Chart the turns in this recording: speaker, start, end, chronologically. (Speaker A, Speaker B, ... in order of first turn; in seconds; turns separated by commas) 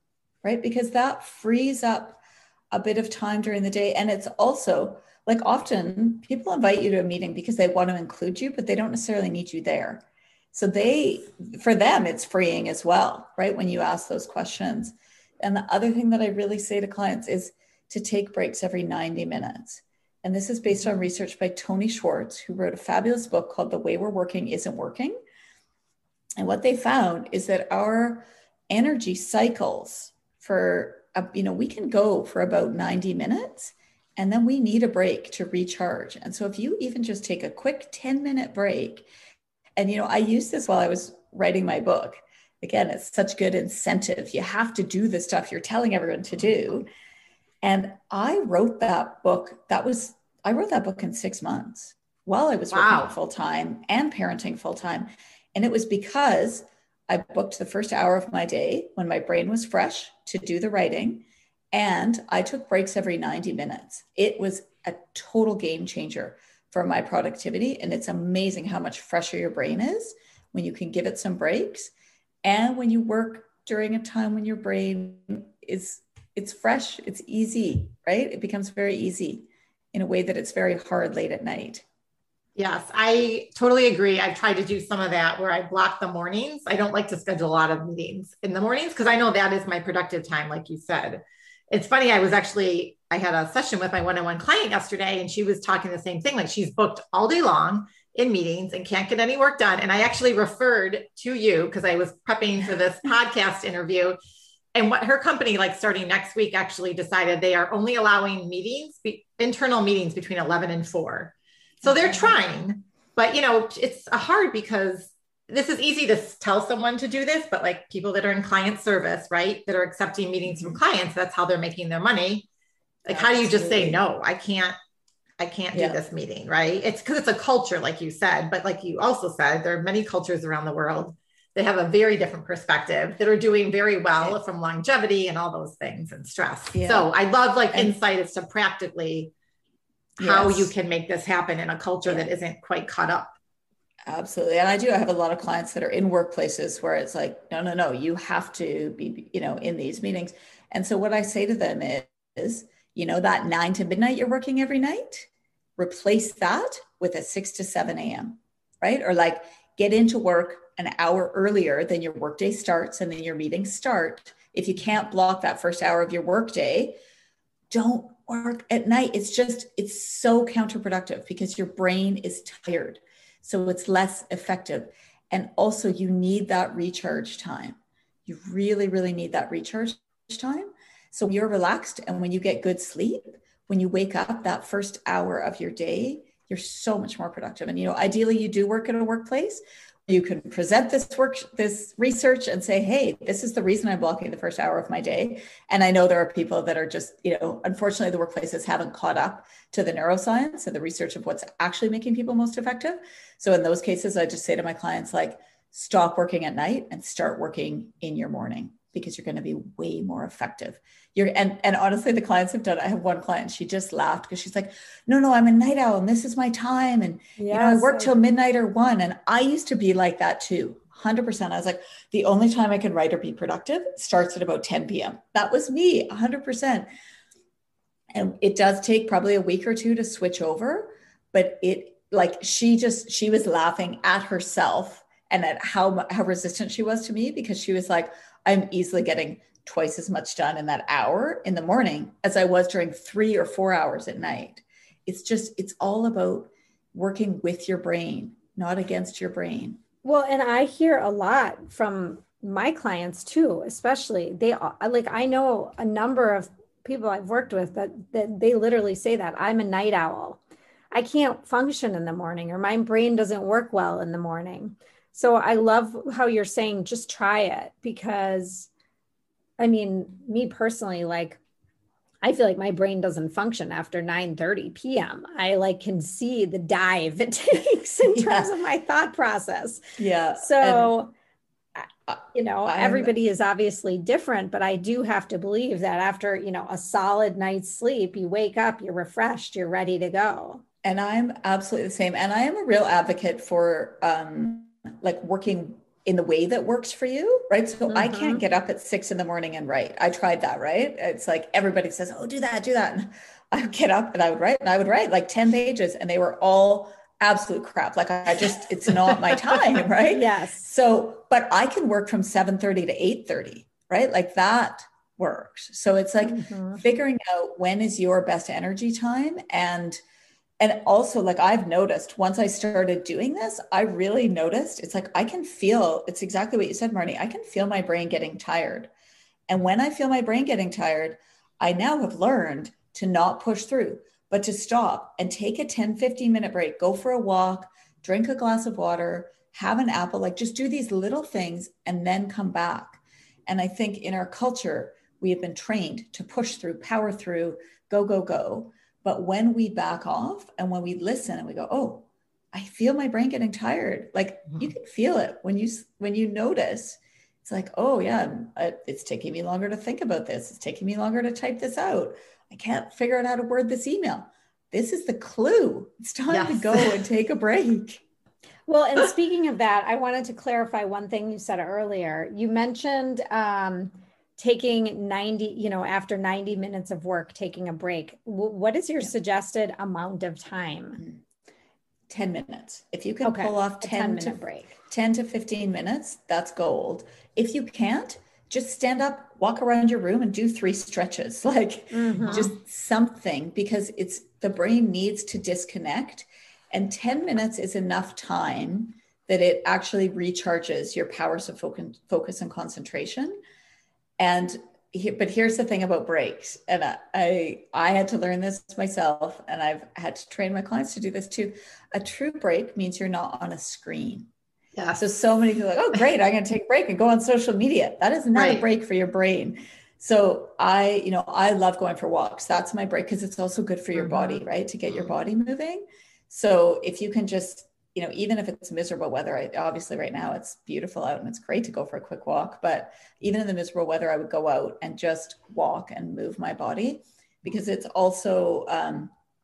Speaker A: 0.4-25.1, Speaker A: 26.4-39.1, Speaker A: 39.8-46.9, Speaker A: 47.6-71.9, Speaker B: 52.7-53.1, Speaker A: 72.4-81.8, Speaker B: 82.5-104.2, Speaker B: 104.7-122.5, Speaker A: 111.8-112.4, Speaker A: 120.4-120.8, Speaker A: 123.1-124.0, Speaker B: 123.1-124.8, Speaker B: 125.4-139.3, Speaker A: 125.7-126.0, Speaker A: 136.7-137.1, Speaker A: 140.2-140.7, Speaker B: 140.2-143.3, Speaker A: 144.1-167.0, Speaker A: 167.7-226.9, Speaker C: 217.4-218.1, Speaker A: 228.1-249.8, Speaker C: 250.0-260.4, Speaker C: 260.9-268.7, Speaker C: 269.6-271.4, Speaker C: 272.2-279.8, Speaker A: 278.1-278.5, Speaker A: 280.0-280.9, Speaker C: 280.4-281.1, Speaker C: 281.8-290.6, Speaker A: 282.1-283.1, Speaker A: 290.8-320.0, Speaker C: 297.9-298.4, Speaker C: 310.1-310.7, Speaker C: 316.3-316.8, Speaker A: 320.6-328.9, Speaker A: 329.5-368.0, Speaker B: 366.3-367.0, Speaker C: 368.7-381.0, Speaker A: 382.1-403.4, Speaker C: 383.2-384.7, Speaker C: 391.9-392.5, Speaker B: 392.2-392.5, Speaker A: 404.2-414.3, Speaker A: 414.9-439.1, Speaker B: 418.3-418.6